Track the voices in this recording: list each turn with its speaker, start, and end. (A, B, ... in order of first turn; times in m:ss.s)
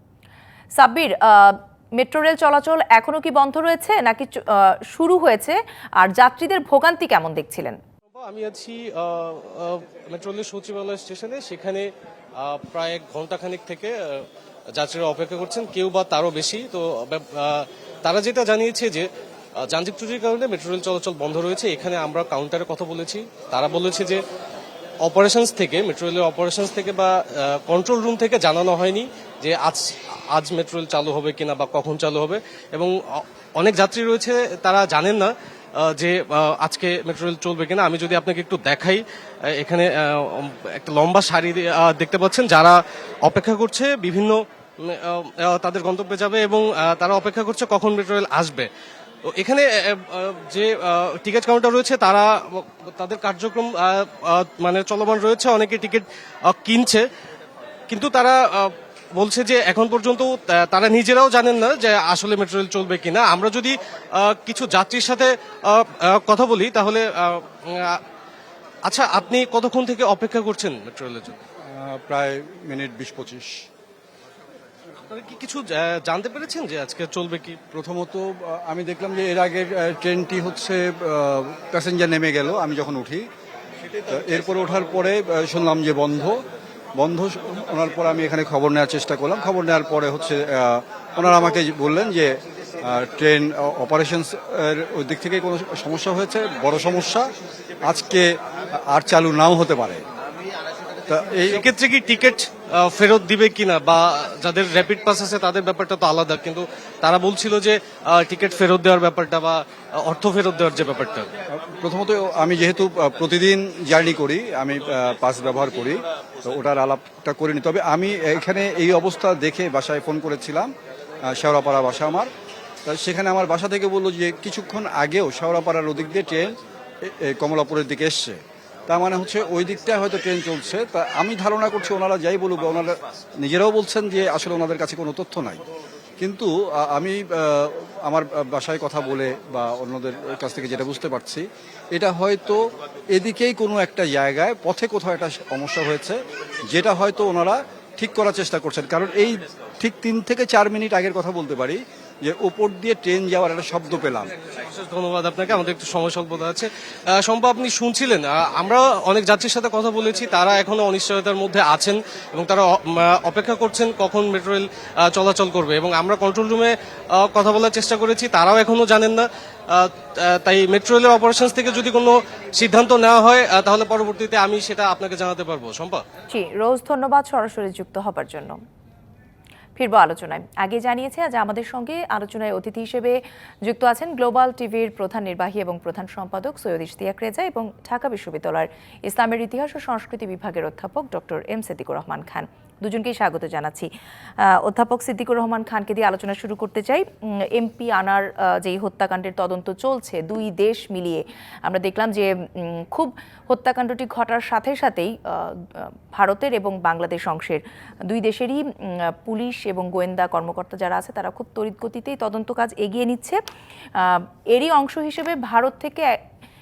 0:00.8-0:07.8 A
0:08.1-0:19.1 B
0:19.6-0:24.2 B
0:25.0-0:48.7 B
0:49.2-0:57.0 B
0:57.9-1:08.0 B
1:08.8-1:11.4 B
1:11.7-1:13.6 C
1:15.1-1:17.6 B
1:17.7-1:23.3 C
1:24.1-1:26.4 C
1:27.0-1:37.3 C
1:37.8-1:40.0 C
1:41.1-1:41.6 C
1:41.5-1:51.3 B
1:51.5-2:00.7 C
2:01.3-2:02.3 C
2:02.9-2:15.6 C
2:16.2-2:34.3 C
2:34.6-2:56.0 B
2:56.3-2:58.6 A
2:59.8-3:13.9 A
3:14.4-3:33.4 A
3:34.0-3:36.2 A